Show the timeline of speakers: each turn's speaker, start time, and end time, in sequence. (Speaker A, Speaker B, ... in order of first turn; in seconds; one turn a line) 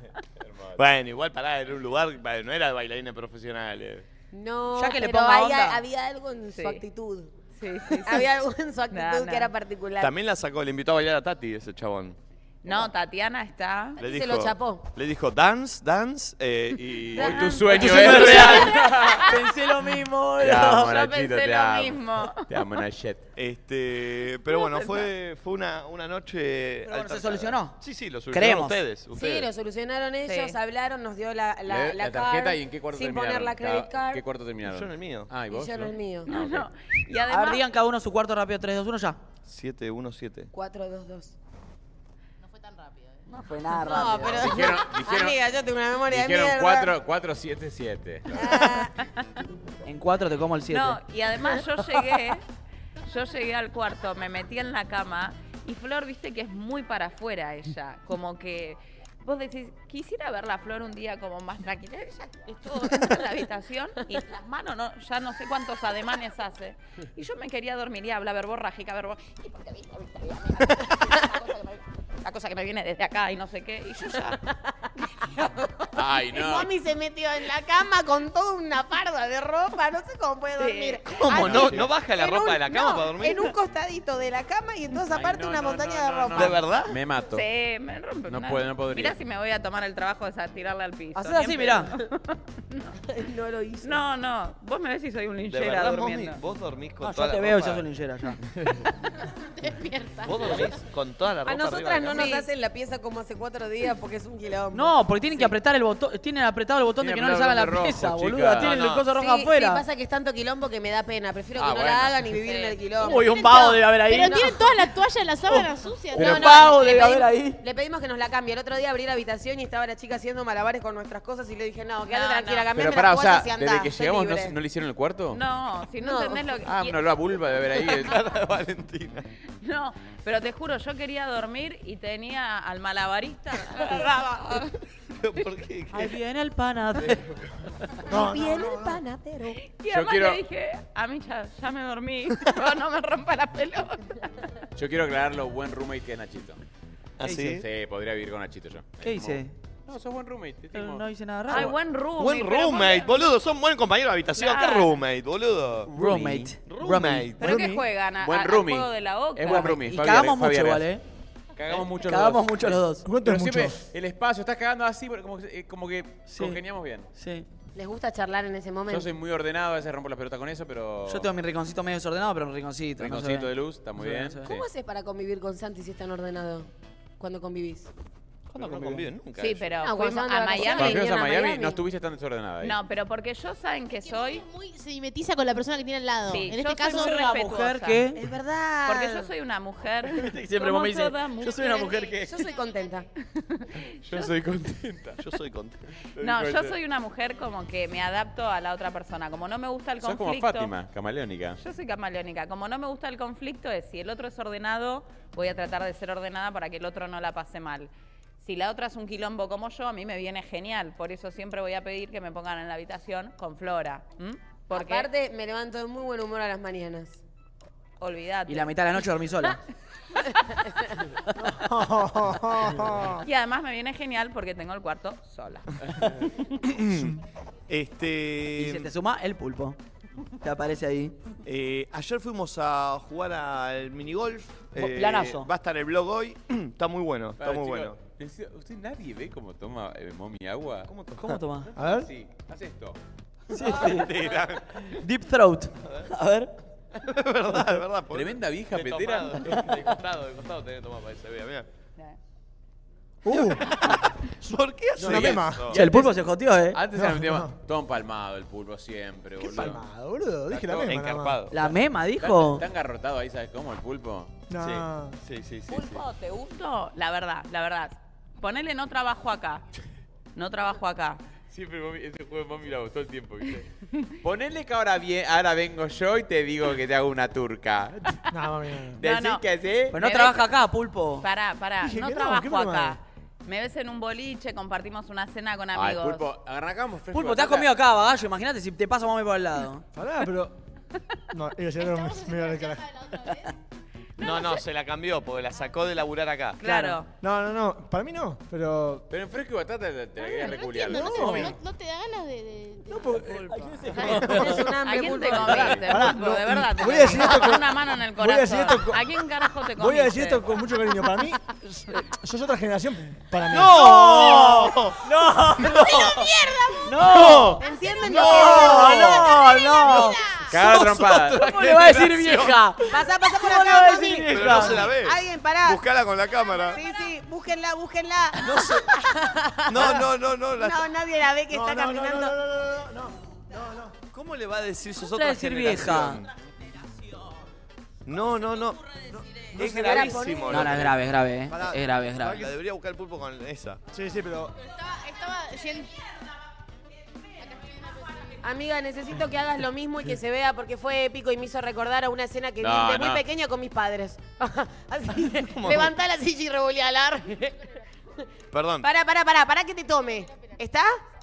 Speaker A: 0.4-0.8
Speaker B: 0.8-4.0
Speaker C: 4.3-7.3
Speaker D: 4.7-5.8
Speaker E: 6.5-6.8
Speaker E: 7.5-8.3
Speaker C: 7.9-10.1
Speaker E: 8.9-9.5
Speaker B: 10.0-12.2
Speaker E: 12.6-14.0
Speaker B: 14.0-18.7
Speaker C: 14.0-14.8
Speaker A: 17.1-19.3
Speaker D: 17.7-20.9
Speaker E: 18.3-18.6
Speaker A: 20.4-23.2
Speaker E: 20.7-22.4
Speaker B: 23.4-29.5
Speaker D: 26.8-27.8
Speaker D: 28.3-28.8
Speaker C: 29.1-34.2
Speaker E: 30.2-30.6
Speaker A: 31.7-36.7
Speaker B: 34.6-35.3
Speaker C: 35.5-36.3
Speaker E: 36.3-37.6
Speaker D: 37.3-39.2
Speaker B: 39.5-40.5
Speaker C: 40.5-41.3
Speaker F: 42.4-43.2
Speaker D: 43.3-44.5
Speaker C: 43.7-46.9
Speaker A: 44.3-45.4
Speaker A: 46.1-48.7
Speaker C: 48.3-48.9
Speaker D: 49.9-51.0
Speaker E: 50.7-52.4
Speaker E: 53.0-74.4
Speaker C: 75.2-86.6
Speaker A: 75.9-76.7
Speaker E: 80.6-81.2
Speaker B: 81.2-83.5
Speaker A: 81.3-81.9
Speaker A: 85.1-87.5
Speaker B: 86.3-87.0
Speaker E: 87.3-92.8
Speaker A: 88.3-89.2
Speaker D: 91.2-91.9
Speaker C: 91.2-91.8
Speaker C: 93.0-94.0
Speaker E: 93.8-96.4
Speaker B: 95.5-97.8
Speaker D: 97.0-98.4
Speaker F: 99.4-100.8
Speaker B: 100.2-102.3
Speaker C: 101.5-105.5
Speaker E: 102.1-102.5
Speaker D: 104.7-109.8
Speaker A: 107.0-108.9
Speaker B: 108.7-108.9
Speaker C: 109.1-113.8
Speaker A: 111.5-112.2
Speaker E: 112.4-112.8
Speaker D: 113.0-114.6
Speaker F: 114.1-116.7
Speaker D: 115.5-117.6
Speaker C: 116.1-124.5
Speaker E: 122.1-122.7
Speaker A: 122.7-125.4
Speaker E: 125.3-127.0
Speaker C: 126.0-126.6
Speaker A: 126.7-128.2
Speaker B: 127.7-129.3
Speaker E: 129.6-134.7
Speaker B: 135.2-136.1
Speaker D: 135.9-137.2
Speaker G: 138.1-139.0
Speaker C: 138.1-139.6
Speaker E: 139.6-144.3
Speaker A: 139.9-140.4
Speaker A: 144.8-146.6
Speaker B: 147.2-147.6
Speaker D: 147.2-147.6
Speaker A: 147.4-151.7
Speaker D: 149.0-149.5
Speaker D: 150.7-151.7
Speaker E: 151.5-153.3
Speaker B: 152.2-157.6
Speaker E: 154.3-154.9
Speaker D: 155.9-157.3
Speaker A: 156.0-156.4
Speaker G: 157.4-157.8
Speaker E: 157.4-159.7
Speaker A: 158.2-160.8
Speaker D: 159.5-161.0
Speaker A: 161.6-167.1
Speaker D: 161.9-163.1
Speaker G: 163.0-163.8
Speaker D: 166.3-166.6
Speaker D: 167.2-167.5
Speaker C: 167.7-169.1
Speaker A: 168.9-171.3
Speaker D: 171.1-174.5
Speaker A: 173.0-174.6
Speaker C: 174.4-177.9
Speaker B: 178.5-179.7
Speaker D: 178.6-179.0
Speaker E: 179.4-181.0
Speaker C: 179.8-181.8
Speaker A: 180.6-182.8
Speaker E: 182.6-184.4
Speaker F: 184.0-187.3
Speaker E: 186.3-188.0
Speaker D: 186.9-188.2
Speaker C: 188.1-189.3
Speaker E: 188.8-192.0
Speaker D: 190.1-192.3
Speaker C: 191.8-193.1
Speaker F: 192.4-192.7
Speaker E: 193.4-193.8
Speaker A: 194.0-195.2
Speaker B: 195.2-195.8
Speaker A: 196.2-196.7
Speaker E: 196.2-200.7
Speaker A: 200.0-201.6
Speaker E: 201.6-215.1
Speaker C: 214.7-217.2
Speaker E: 218.0-218.7
Speaker D: 218.5-219.6
Speaker G: 221.5-223.2
Speaker E: 223.2-225.7
Speaker B: 226.6-228.9
Speaker D: 228.6-229.8
Speaker D: 230.4-231.1
Speaker B: 231.4-237.9
Speaker D: 234.7-235.5
Speaker A: 237.4-240.9
Speaker B: 240.9-241.4
Speaker D: 241.2-241.7
Speaker G: 241.7-242.1
Speaker A: 241.8-243.0
Speaker B: 243.5-244.6
Speaker D: 243.5-244.2
Speaker D: 245.0-246.5
Speaker B: 245.8-246.1
Speaker B: 246.9-251.7
Speaker A: 248.1-249.7
Speaker G: 253.2-253.7
Speaker B: 253.3-255.8
Speaker G: 254.9-256.3
Speaker A: 255.0-255.5
Speaker D: 255.7-256.8
Speaker A: 256.7-259.8
Speaker G: 256.9-257.5
Speaker G: 259.4-261.4
Speaker A: 260.5-260.9
Speaker B: 260.8-261.6
Speaker D: 261.5-262.6
Speaker A: 262.2-264.3
Speaker G: 264.5-265.1
Speaker B: 264.6-266.0
Speaker E: 265.7-269.6
Speaker E: 270.3-271.2
Speaker A: 271.5-273.7
Speaker A: 274.2-278.1
Speaker G: 278.3-279.0
Speaker A: 279.0-279.9
Speaker E: 279.0-280.5
Speaker D: 279.9-281.2
Speaker E: 281.2-286.2
Speaker G: 281.8-283.0
Speaker A: 285.7-287.7
Speaker D: 287.1-289.8
Speaker G: 289.9-290.6
Speaker G: 291.3-292.9
Speaker F: 291.8-293.5
Speaker E: 294.2-294.6
Speaker B: 294.2-296.6
Speaker E: 296.6-297.1
Speaker D: 296.6-297.0
Speaker G: 297.2-299.1
Speaker A: 299.1-301.5
Speaker F: 300.2-303.4
Speaker E: 300.7-301.3
Speaker G: 300.9-301.6
Speaker G: 302.9-304.7
Speaker E: 303.9-310.5
Speaker C: 303.9-305.9
Speaker A: 305.3-305.9
Speaker G: 305.8-309.0
Speaker G: 309.8-314.6
Speaker B: 313.5-315.0
Speaker D: 313.8-316.0
Speaker B: 315.6-316.3
Speaker C: 315.6-320.3
Speaker D: 316.8-320.2
Speaker B: 317.0-322.6
Speaker A: 320.5-321.5
Speaker D: 321.3-324.9
Speaker C: 322.9-325.8
Speaker B: 324.3-326.8
Speaker C: 326.7-332.4
Speaker B: 328.4-328.9
Speaker B: 329.7-330.9
Speaker G: 331.5-333.9
Speaker B: 334.1-336.3
Speaker D: 335.1-336.2
Speaker B: 338.0-343.8
Speaker C: 339.5-340.8
Speaker G: 339.6-340.1
Speaker D: 340.5-342.5
Speaker G: 341.5-342.3
Speaker G: 343.9-344.6
Speaker F: 344.6-345.9
Speaker F: 347.4-348.4
Speaker C: 348.4-357.7
Speaker A: 352.6-353.2
Speaker B: 355.4-355.9
Speaker B: 358.5-358.9
Speaker C: 358.8-360.9